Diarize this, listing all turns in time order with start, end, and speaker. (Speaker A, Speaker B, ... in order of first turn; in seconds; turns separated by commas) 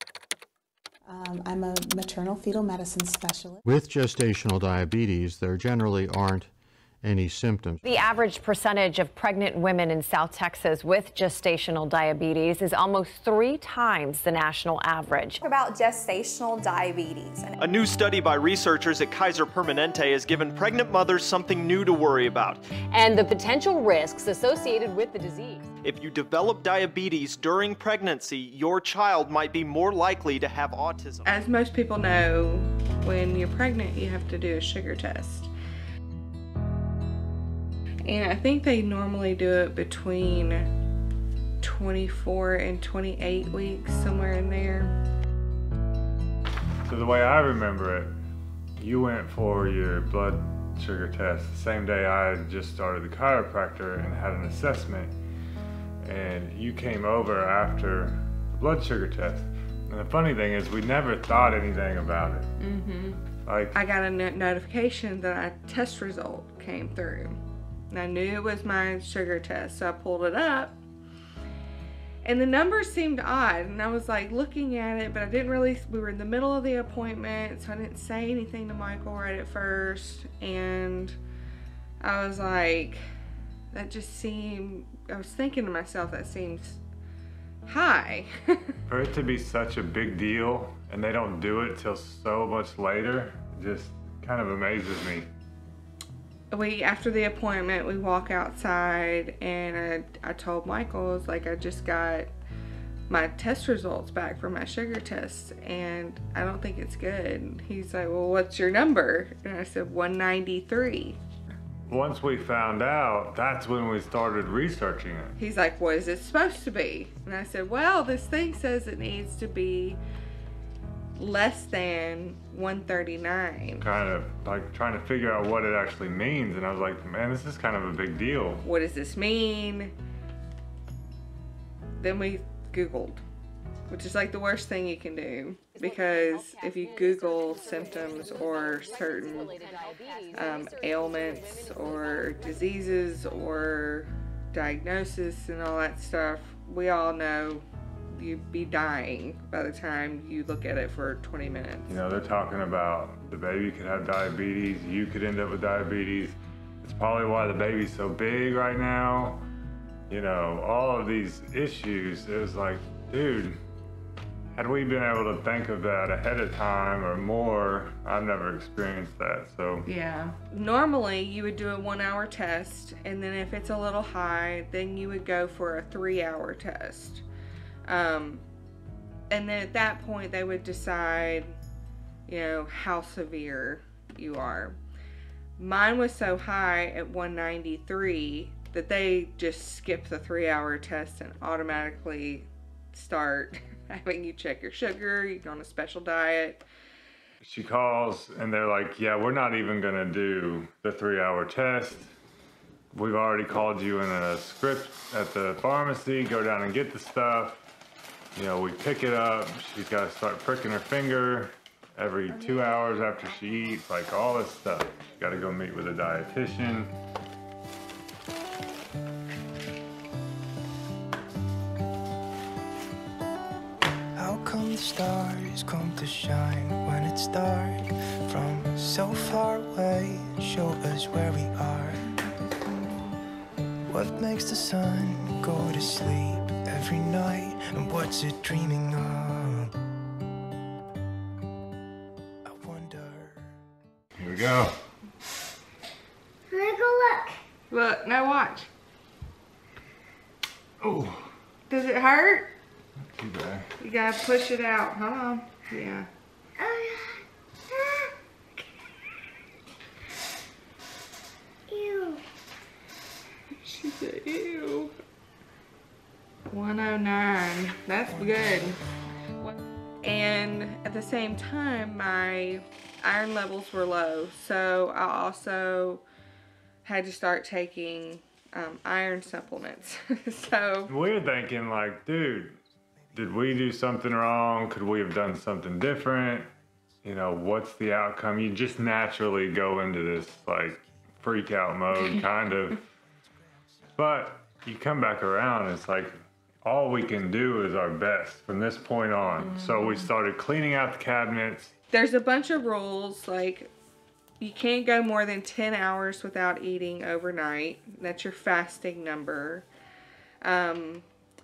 Speaker A: 1.1-3.6, Speaker B: 3.7-6.5, Speaker B: 7.0-7.8, Speaker C: 7.8-15.4, Speaker D: 17.6-22.6, Speaker E: 22.9-25.7, Speaker D: 25.8-31.3, Speaker F: 31.2-35.5, Speaker F: 38.1-40.7, Speaker F: 41.6-44.9, Speaker G: 46.9-48.1, Speaker G: 48.8-55.1, Speaker G: 56.0-62.5, Speaker F: 62.6-63.2, Speaker G: 63.5-63.8, Speaker F: 63.7-70.8, Speaker F: 72.2-81.2, Speaker F: 82.0-83.0, Speaker F: 83.7-86.8, Speaker F: 87.7-88.7, Speaker G: 88.9-95.3, Speaker F: 96.5-102.3, Speaker F: 103.1-111.2, Speaker G: 111.9-115.3, Speaker F: 115.4-120.0, Speaker F: 121.2-123.8, Speaker G: 123.8-128.7, Speaker F: 128.6-129.9, Speaker F: 132.0-133.2, Speaker F: 133.9-139.6, Speaker E: 135.8-142.2, Speaker F: 140.3-152.0, Speaker G: 151.9-159.4, Speaker G: 160.1-163.6, Speaker G: 164.6-169.9, Speaker F: 169.8-177.2, Speaker F: 177.9-178.4, Speaker F: 179.3-181.6, Speaker F: 182.3-184.8, Speaker F: 185.6-196.6, Speaker G: 197.4-202.1, Speaker G: 202.9-207.6, Speaker G: 208.3-216.9, Speaker H: 224.2-232.0, Speaker H: 233.9-239.8, Speaker H: 242.4-243.5, Speaker G: 244.2-244.8, Speaker F: 246.5-248.7, Speaker G: 250.8-251.3, Speaker F: 251.7-252.5, Speaker G: 253.1-253.7, Speaker F: 253.8-257.2, Speaker F: 257.7-258.1, Speaker F: 261.7-262.2, Speaker F: 263.6-264.9, Speaker F: 266.5-268.8, Speaker F: 270.0-276.0, Speaker F: 276.8-280.9, Speaker G: 280.9-282.6, Speaker G: 283.1-286.5, Speaker G: 287.0-292.8, Speaker G: 294.0-301.7, Speaker F: 301.9-303.7, Speaker F: 304.4-309.7, Speaker F: 310.4-311.1